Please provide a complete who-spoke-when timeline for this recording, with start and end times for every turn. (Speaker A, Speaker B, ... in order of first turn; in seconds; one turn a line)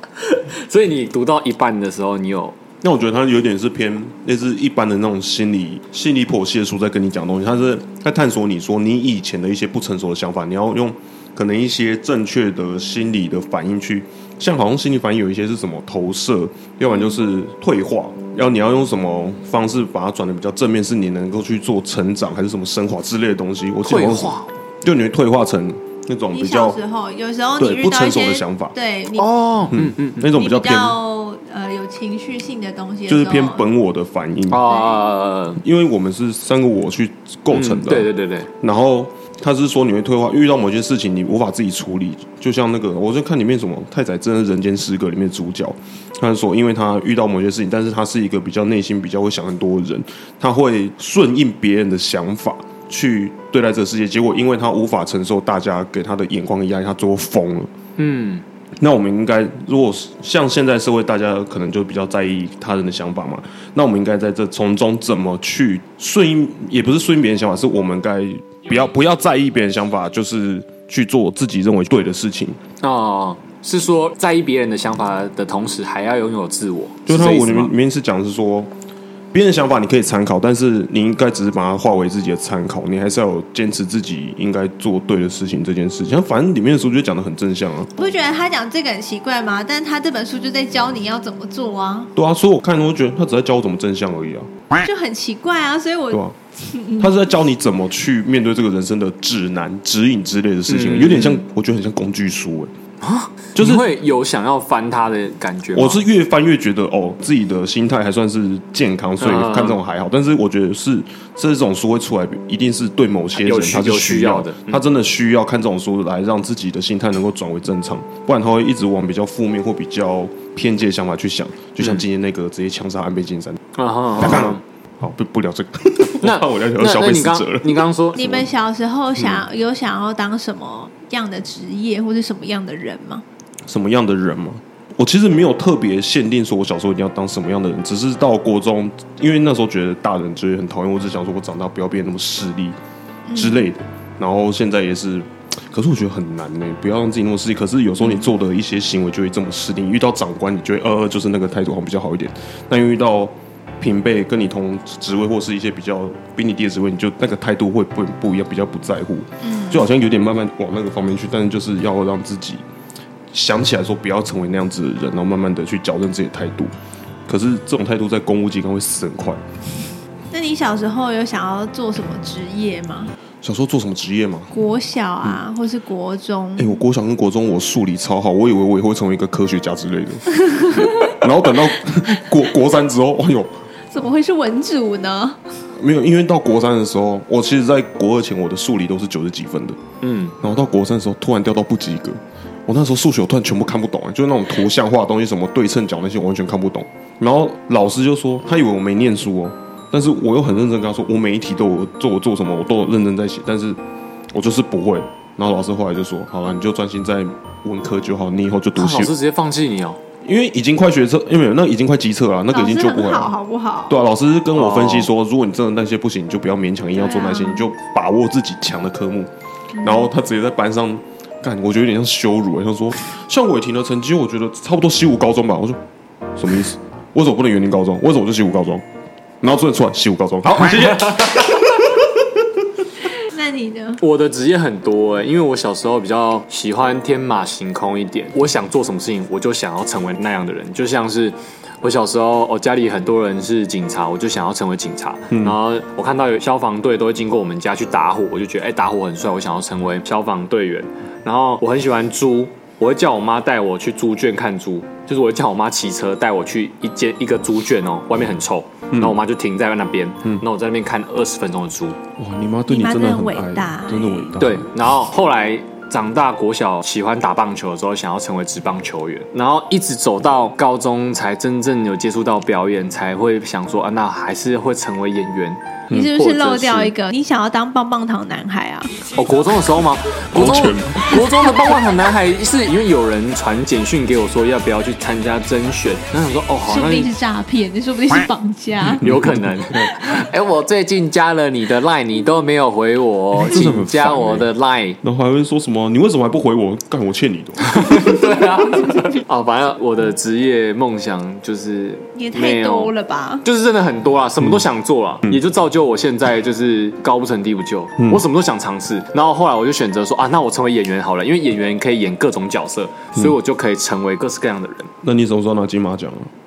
Speaker A: 0.2-2.6
Speaker B: 2.8-26.8
Speaker A: 23.9-24.5
Speaker C: 26.3-29.3
Speaker B: 27.6-28.8
Speaker A: 29.1-30.2
Speaker B: 29.7-31.0
Speaker C: 30.2-33.7
Speaker B: 33.1-34.6
Speaker A: 34.5-35.6
Speaker C: 34.6-35.0
Speaker B: 35.6-57.7
Speaker A: 37.5-38.5
Speaker A: 58.0-58.4
Speaker B: 58.8-72.6
Speaker A: 72.8-77.7
Speaker B: 77.1-78.7
Speaker B: 79.3-88.1
Speaker C: 88.0-92.1
Speaker B: 92.2-94.5
Speaker C: 94.8-97.1
Speaker B: 97.0-102.7
Speaker A: 100.7-101.4
Speaker A: 103.0-106.0
Speaker B: 103.6-103.9
Speaker B: 105.8-123.6
Speaker A: 109.2-109.8
Speaker A: 113.3-114.8
Speaker A: 123.8-124.6
Speaker B: 124.1-127.8
Speaker A: 126.2-128.5
Speaker C: 128.2-133.2
Speaker B: 129.2-129.4
Speaker B: 133.7-142.8
Speaker C: 143.3-143.6
Speaker B: 143.3-162.6
Speaker C: 159.4-159.8
Speaker B: 163.3-166.7
Speaker B: 167.3-169.4
Speaker C: 170.3-173.1
Speaker B: 173.4-174.5
Speaker C: 174.5-176.8
Speaker B: 176.6-183.5
Speaker C: 180.5-181.1
Speaker C: 183.9-185.5
Speaker B: 185.8-189.8
Speaker A: 190.0-190.3
Speaker B: 190.4-203.8
Speaker B: 204.3-209.1
Speaker A: 208.8-210.0
Speaker B: 210.2-213.3
Speaker C: 212.5-214.0
Speaker B: 213.9-225.8
Speaker A: 214.6-215.1
Speaker C: 217.0-217.6
Speaker C: 219.8-220.1
Speaker B: 226.3-228.8
Speaker B: 229.4-232.5
Speaker C: 233.1-234.0
Speaker A: 234.0-262.0
Speaker B: 245.3-245.6
Speaker B: 258.9-259.2
Speaker B: 262.2-264.7
Speaker C: 262.7-264.4
Speaker A: 264.4-276.9
Speaker C: 275.9-278.9
Speaker A: 279.1-287.1
Speaker B: 280.3-281.4
Speaker C: 286.7-289.1
Speaker B: 289.0-289.9
Speaker A: 289.0-295.0
Speaker B: 293.4-294.5
Speaker B: 295.0-298.2
Speaker A: 297.6-302.9
Speaker C: 302.1-303.4
Speaker A: 303.4-314.9
Speaker B: 308.0-308.2
Speaker B: 315.0-316.3